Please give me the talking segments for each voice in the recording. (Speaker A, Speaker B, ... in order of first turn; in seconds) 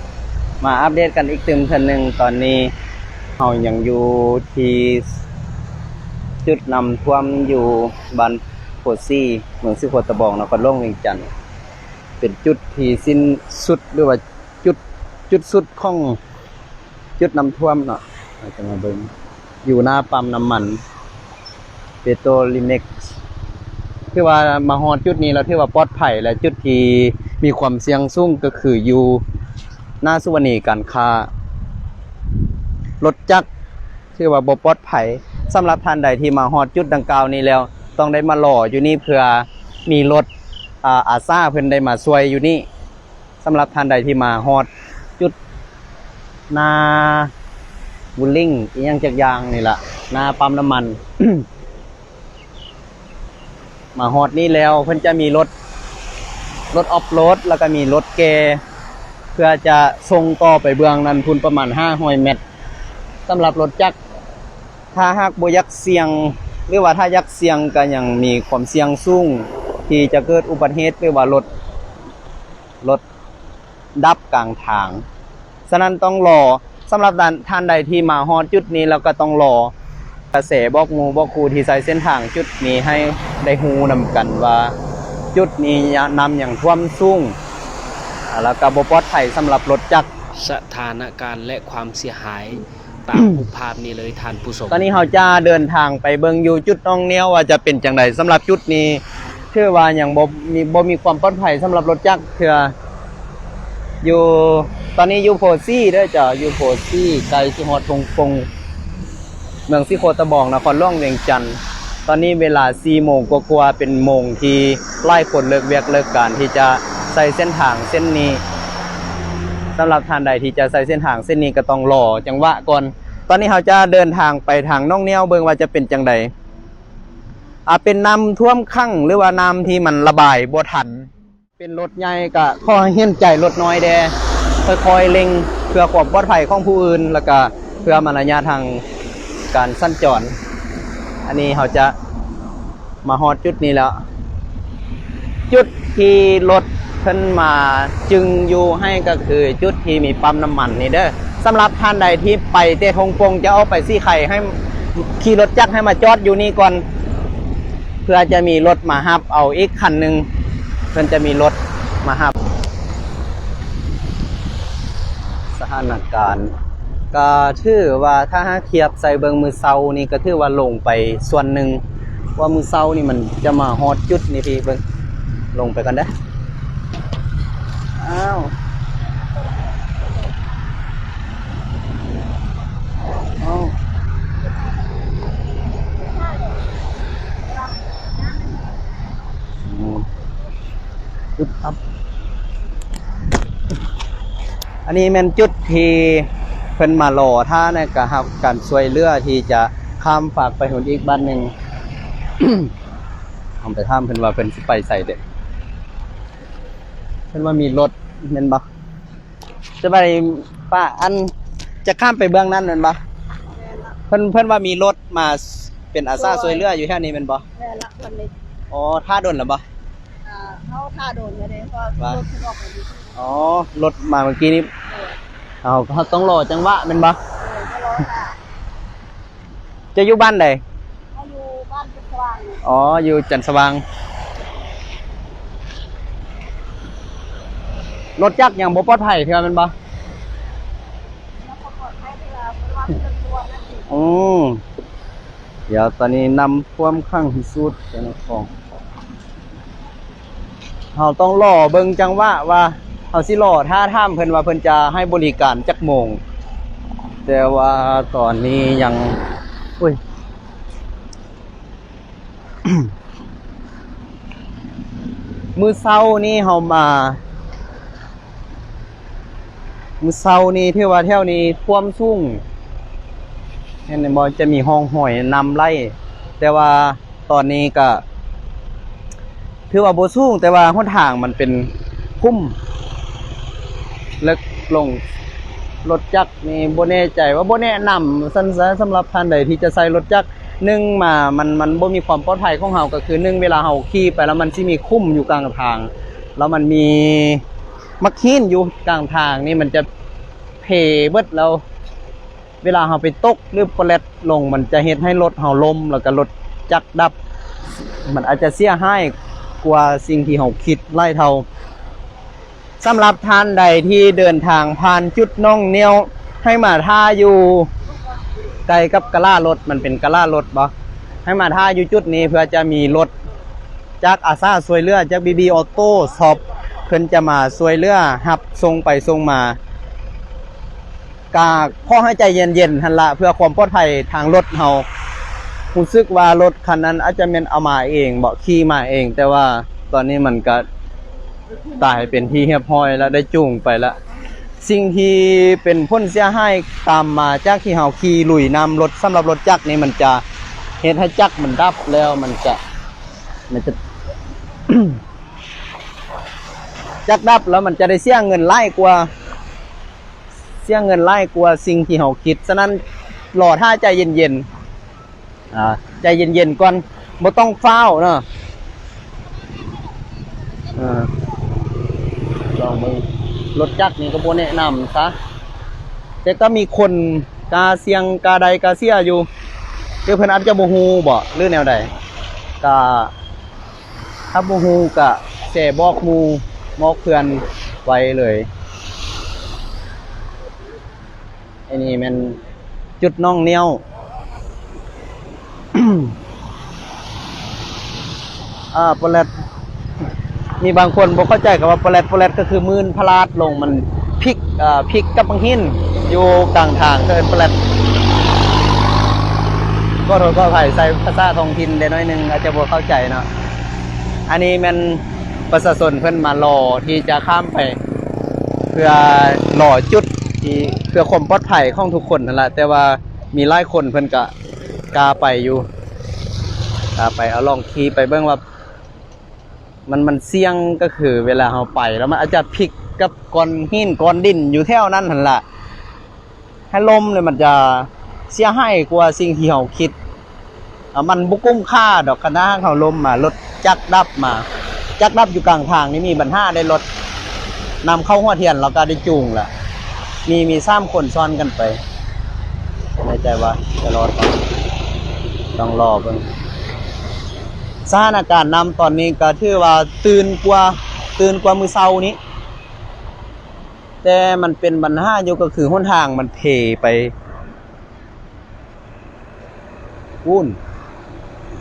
Speaker A: 0.6-2.7, 3.4-5.2, 6.5-11.3, 12.2-16.2, 17.2-19.1, 19.6-20.8, 22.0-22.9, 24.1-29.2, 30.0-31.3, 33.0-33.5, 34.2-40.3, 40.8-42.7, 43.4-45.4, 46.5-47.3, 48.2-51.5, 54.0-55.5, 56.7-58.6, 59.4-62.4, 63.3-64.0, 64.9-71.5, 74.0-75.0, 75.7-79.7, 80.3-84.8, 85.3-87.4, 88.3-90.1, 94.7-102.7, 104.0-108.5, 109.7-118.4, 119.8-126.3, 127.7-138.8, 139.5-140.3, 141.2-141.9, 143.0-144.0, 145.5-156.8, 158.1-160.3, 160.9-162.4, 165.6-166.5, 167.1-171.8, 172.4-174.8, 175.5-176.1, 178.0-178.5, 183.4-183.7, 189.7-190.1, 191.4-191.8, 194.9-201.5, 202.4-202.7, 203.6-205.2, 207.3-208.7, 209.8-211.3, 211.8-213.0, 214.1-217.4, 218.7-219.6, 223.2-224.7, 225.6-227.2, 229.9-230.6, 232.6-233.8, 238.2-239.7, 243.9-244.6, 245.7-248.5, 250.9-256.2, 257.3-259.2, 265.6-267.2, 270.0-272.4, 273.9-278.0, 279.7-282.6, 284.2-285.0, 285.8-297.4, 298.0-299.9, 300.6-301.6, 302.6-307.1, 308.0-311.5, 312.8-317.7, 318.7-320.7, 321.2-323.1, 324.0-329.6, 331.3-334.9, 335.7-340.7, 341.8-344.0, 344.6-350.2, 350.8-352.6, 353.5-353.8, 354.7-355.0, 357.1-359.1, 360.6-362.8, 363.3-364.5, 365.5-368.2, 370.8-371.1, 372.5-375.1, 376.2-379.3, 380.1-381.9, 382.6-383.1, 384.3-388.5, 391.7-392.4, 393.0-393.8, 395.7-396.1, 398.7-399.3, 400.6-407.6, 410.1-413.3, 414.3-417.8, 418.7-424.3, 424.9-425.7, 427.0-428.4, 429.9-435.4, 436.7-439.9, 440.9-444.5, 445.0-446.8, 447.8-449.5, 450.3-451.8, 453.0-454.4, 455.6-456.3, 457.9-462.2, 464.0-467.1, 470.2-470.6
Speaker B: 90.3-94.9
Speaker C: 186.1-186.6, 213.6-213.9, 216.2-216.7, 217.6-218.3, 220.2-223.2, 227.4-228.4, 231.1-232.6, 241.4-243.9